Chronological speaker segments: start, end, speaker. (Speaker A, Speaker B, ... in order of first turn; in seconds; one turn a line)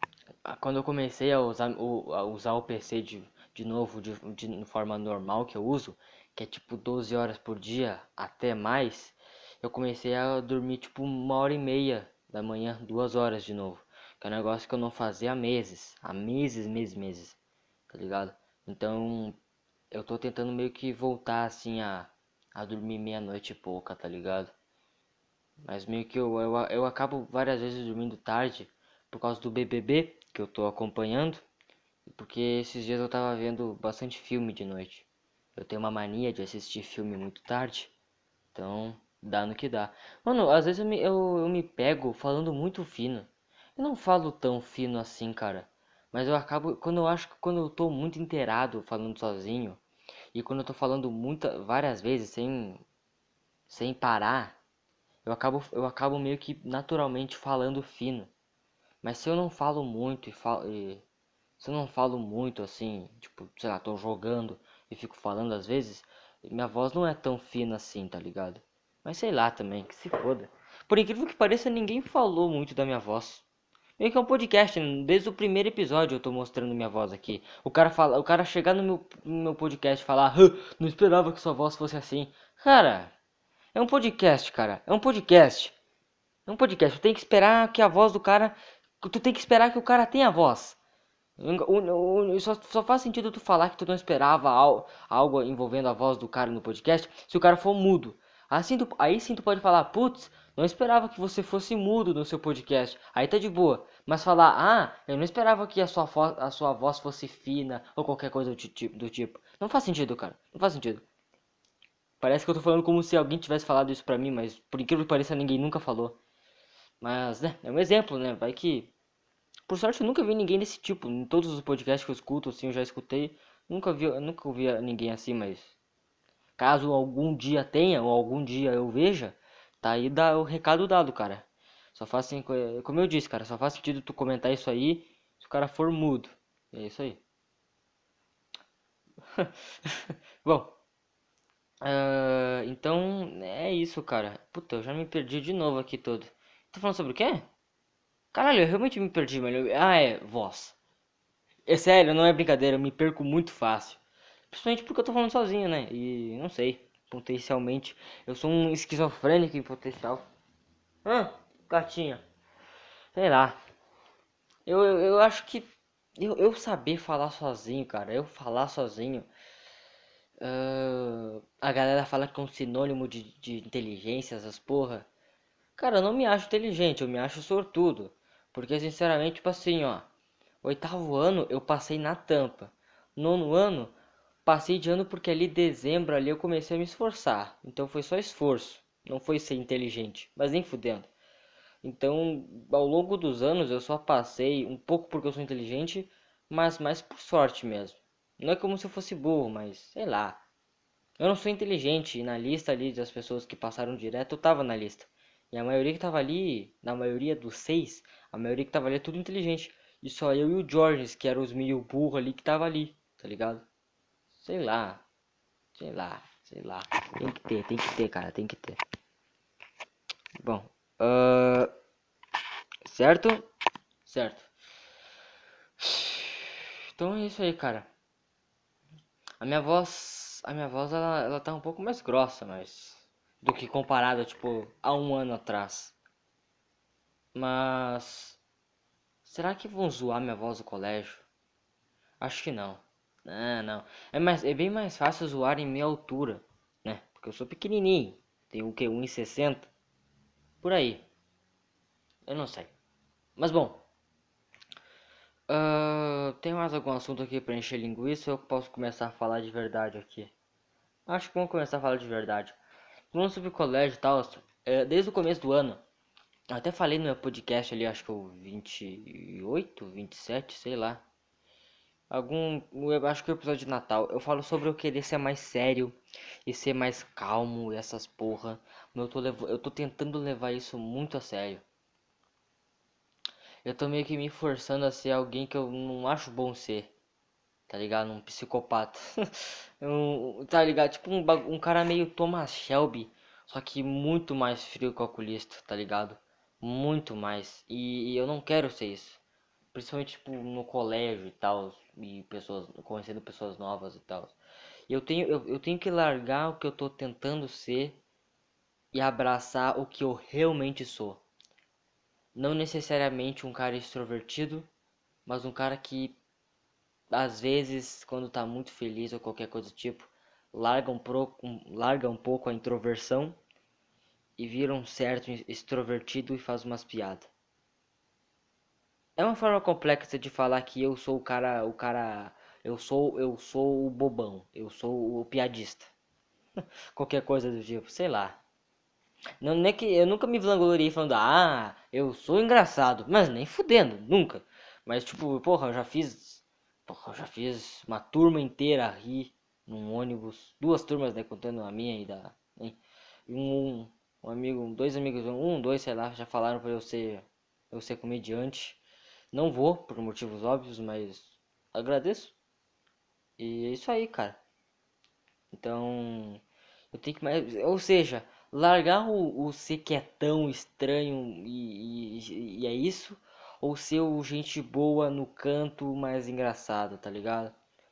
Speaker A: 0.5-17.4
Speaker A: 17.9-19.4
Speaker A: 19.9-24.5
Speaker A: 25.6-31.4
Speaker A: 32.1-37.9
Speaker A: 38.5-49.8
Speaker A: 50.3-52.8
Speaker A: 53.7-54.6
Speaker A: 55.2-58.3
Speaker A: 59.0-61.0
Speaker A: 61.6-73.4
Speaker A: 74.0-83.1
Speaker A: 83.7-85.8
Speaker A: 86.5-90.8
Speaker A: 91.4-111.0
Speaker A: 112.2-116.2
Speaker A: 117.0-118.9
Speaker A: 119.7-125.8
Speaker A: 126.6-137.2
Speaker A: 139.3-140.8
Speaker A: 141.8-147.5
Speaker A: 148.3-150.8
Speaker A: 151.7-160.2
Speaker A: 161.1-162.2
Speaker A: 163.2-163.6
Speaker A: 164.7-169.3
Speaker A: 170.4-175.1
Speaker A: 175.8-180.1
Speaker A: 180.6-191.1
Speaker A: 191.8-200.4
Speaker A: 201.2-213.6
Speaker A: 214.4-215.0
Speaker A: 215.8-218.8
Speaker A: 220.4-221.7
Speaker A: 222.8-223.5
Speaker A: 224.1-224.5
Speaker A: 225.8-227.9
Speaker A: 229.4-235.9
Speaker A: 237.3-238.4
Speaker A: 239.2-241.2
Speaker A: 242.2-249.7
Speaker A: 250.6-251.0
Speaker A: 252.3-252.7
Speaker A: 253.4-253.8
Speaker A: 255.5-260.3
Speaker A: 261.1-262.6
Speaker A: 263.1-265.8
Speaker A: 266.5-271.0
Speaker A: 272.1-281.6
Speaker A: 283.6-286.9
Speaker A: 287.7-299.2
Speaker A: 299.7-304.4
Speaker A: 304.9-308.0
Speaker A: 308.9-311.2
Speaker A: 312.4-314.7
Speaker A: 315.3-316.2
Speaker A: 317.1-323.4
Speaker A: 324.4-327.3
Speaker A: 329.2-335.9
Speaker A: 336.6-338.4
Speaker A: 339.4-358.8
Speaker A: 359.3-362.3
Speaker A: 363.4-364.4
Speaker A: 365.5-366.4
Speaker A: 366.9-377.6